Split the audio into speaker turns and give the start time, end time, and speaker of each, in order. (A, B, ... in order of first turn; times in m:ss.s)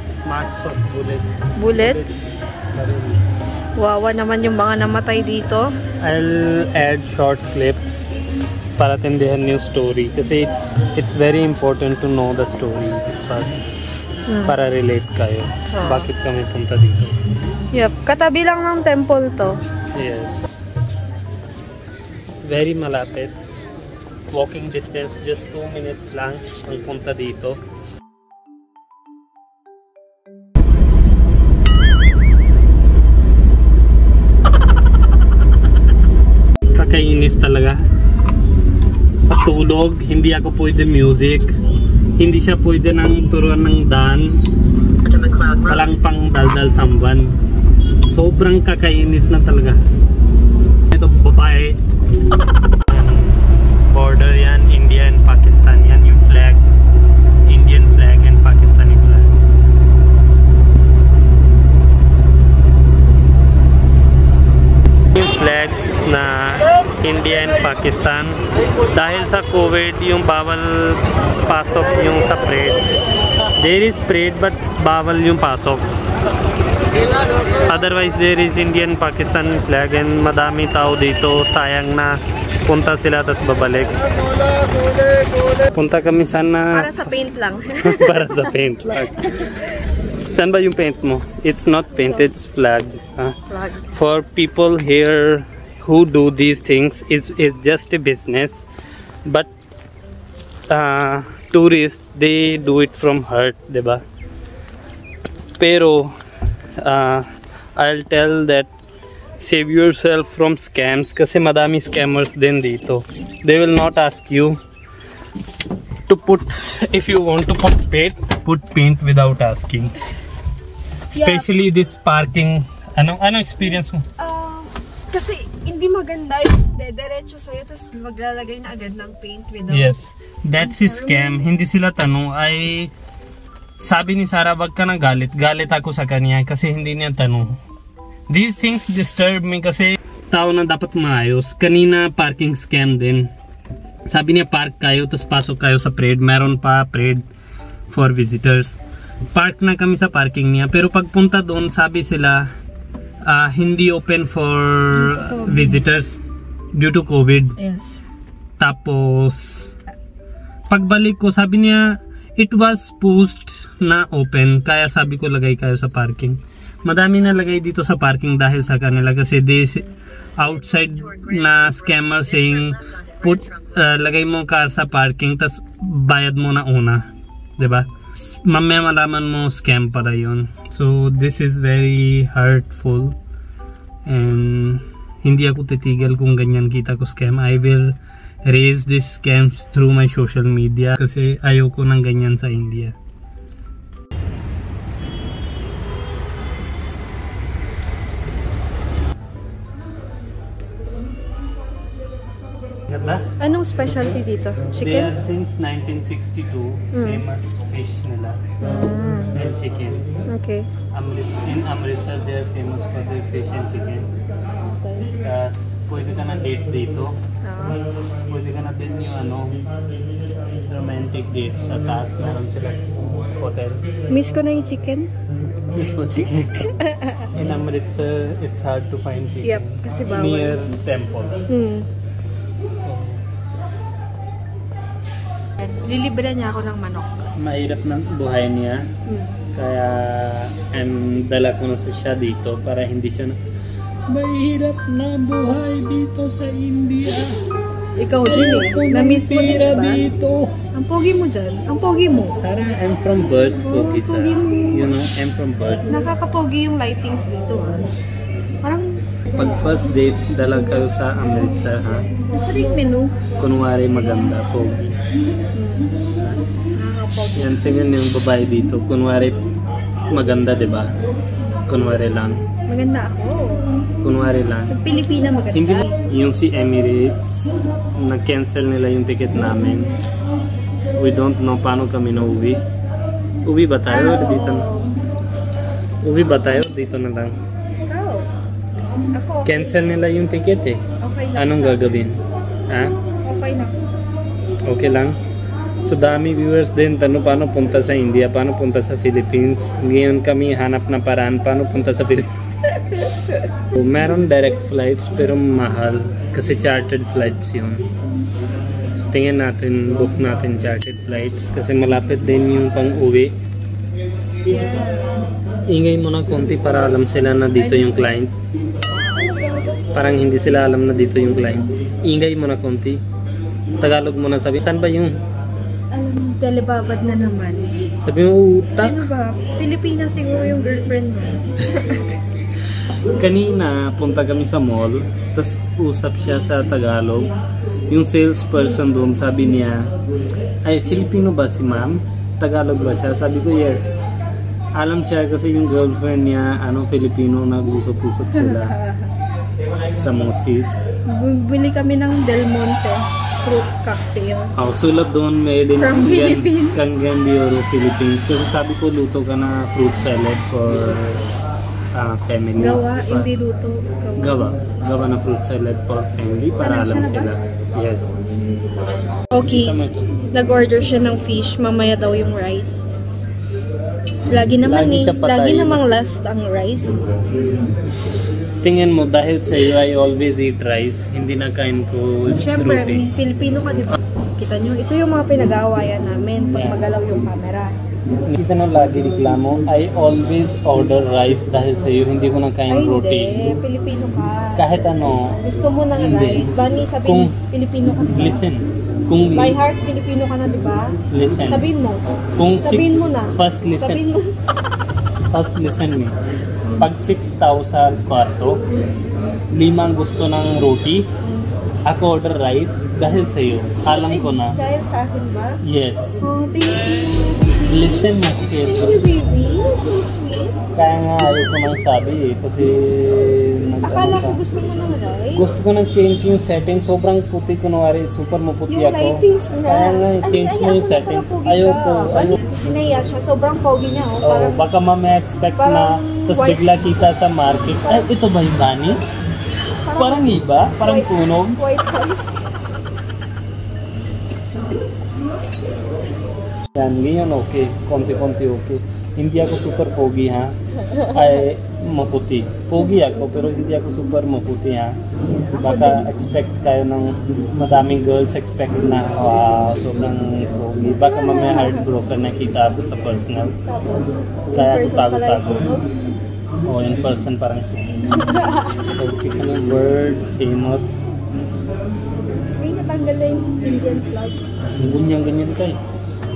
0:00.2-0:03.2 A
0:01.6-0:02.1 B
0:03.8-0:05.7 B
0:06.0-0:07.9 A
0:08.8-0:13.7 A
0:14.3-0:14.5 B
0:14.4-0:17.2 A
0:15.7-0:16.1 B
0:17.7-0:19.6 B
0:20.0-0:20.5 A
0:22.4-0:23.4 A
0:24.3-0:27.6 A
0:36.7-0:37.8 A
0:39.3-0:41.5 A
0:42.2-0:44.4 A
0:45.4-0:47.4 A
0:48.1-0:49.8 A
0:50.9-0:51.8 A
0:52.9-0:56.6 A
0:57.5-0:59.4 A
1:05.1-1:12.8 A
1:13.6-1:15.9 A
1:17.5-1:24.0 A
1:25.7-1:27.2 A
1:26.7-1:28.5 B
1:27.8-1:29.8 A
1:30.3-1:33.4 A
1:33.5-1:33.9 B
1:33.9-1:38.7 A
1:40.7-1:44.0 A
1:45.6-1:46.1 A
1:46.8-1:48.7 A
1:49.4-1:54.6 A
1:56.1-2:00.0 A
2:01.1-2:04.0 A
2:01.1-2:01.4 B
2:04.2-2:09.9 B
2:09.7-2:12.9 A
2:10.6-2:11.5 B
2:13.8-2:17.6 A
2:18.3-2:23.3 A
2:24.1-2:27.2 A
2:27.9-2:28.8 A
2:29.3-2:32.5 A
2:33.2-2:36.2 A
2:34.9-2:35.8 B
2:36.8-2:37.6 A
2:37.6-2:38.0 B
2:38.6-2:39.7 A
2:40.7-3:03.2 A
3:04.1-3:13.0 A
3:22.9-3:23.2 A
3:23.4-3:25.1 B
3:24.8-3:28.4 A
3:27.0-3:27.2 B
3:28.6-3:29.3 B
3:29.3-3:30.0 A
3:30.3-3:30.7 B
3:30.9-3:34.1 A
3:34.7-3:35.1 B
3:35.2-3:37.2 A
3:37.4-3:37.8 B
3:38.2-3:39.6 A
3:40.7-3:43.9 A
3:44.1-3:45.1 B
3:45.7-3:46.8 A
3:46.3-3:47.3 B
3:47.3-3:51.4 A
3:49.4-3:50.6 B
3:51.5-3:51.9 B
3:52.7-3:53.2 A
3:55.6-3:57.2 B
3:57.4-3:58.9 A
3:59.1-3:59.3 B
3:59.5-4:03.4 A
4:04.1-4:07.3 A
4:08.0-4:10.1 B
4:08.3-4:10.6 A
4:10.7-4:12.4 B
4:12.3-4:15.9 A
4:13.6-4:14.9 B
4:15.9-4:17.9 B
4:18.6-4:19.0 B
4:19.3-4:22.1 A
4:22.3-4:23.2 B
4:23.4-4:24.9 A
4:25.6-4:25.9 B
4:26.8-4:27.5 B
4:27.4-4:29.4 A
4:30.1-4:31.0 A
4:31.7-4:32.4 A
4:32.7-4:33.7 B
4:34.0-4:34.8 A
4:34.7-4:35.9 B
4:35.5-4:39.9 A
4:41.0-4:42.6 A
4:43.4-4:44.7 A
4:43.9-4:44.9 B
4:46.0-4:47.4 A
4:47.9-4:48.3 B
4:49.1-4:49.8 B
4:49.4-4:50.8 A
4:51.0-4:52.1 B
4:51.4-4:53.0 A
4:53.2-4:53.7 B
4:54.7-4:55.2 A
4:55.8-5:02.3 A
5:03.8-5:07.9 A
5:09.0-5:13.4 A
5:14.4-5:15.3 B
5:15.7-5:18.3 A
5:17.6-5:18.2 B
5:19.2-5:19.9 B
5:19.9-5:23.0 A
5:23.8-5:25.2 A
5:25.9-5:27.7 B
5:28.0-5:29.1 A
5:28.8-5:32.1 B
5:33.2-5:37.3 A
5:37.9-5:39.9 A
5:40.6-5:44.0 A
5:44.8-5:48.8 A
5:48.4-5:49.1 B
5:49.9-5:50.8 A
5:51.1-5:54.5 B
5:54.6-6:01.3 A
5:55.8-5:56.9 B
6:01.9-6:03.3 A
6:02.6-6:04.4 B
6:04.2-6:08.2 A
6:06.6-6:07.3 B
6:09.3-6:13.0 B
6:09.5-6:10.1 A
6:14.3-6:17.0 B
6:14.6-6:15.9 A
6:18.6-6:23.1 A
6:22.3-6:27.8 B
6:26.4-6:26.8 A
6:28.3-6:33.5 A
6:32.7-6:34.7 B
6:34.6-6:35.4 A
6:35.4-6:38.4 B
6:36.0-6:37.4 A
6:38.1-6:39.6 A
6:39.3-6:40.9 B
6:41.1-6:41.7 A
6:41.5-6:42.0 B
6:42.4-6:44.0 A
6:42.6-6:44.3 B
6:45.3-6:46.2 A
6:46.8-6:48.6 A
6:49.5-6:51.1 A
6:51.9-6:54.6 A
6:53.9-6:55.6 B
6:55.6-6:56.2 A
6:56.2-7:00.6 B
6:57.7-6:59.0 A
7:00.8-7:04.4 A
7:03.8-7:05.5 B
7:05.3-7:12.4 A
7:08.7-7:14.6 B
7:14.2-7:19.0 A
7:15.6-7:16.6 B
7:19.8-7:22.2 B
7:20.0-7:21.6 A
7:26.8-7:35.0 A
7:35.5-7:36.0 B
7:35.6-7:43.5 A
7:41.1-7:41.9 B
7:43.7-7:45.9 B
7:44.5-7:45.7 A
7:46.6-7:48.0 A
7:48.3-7:48.7 B
7:48.9-7:51.0 A
7:52.6-7:54.4 B
7:54.7-7:55.8 A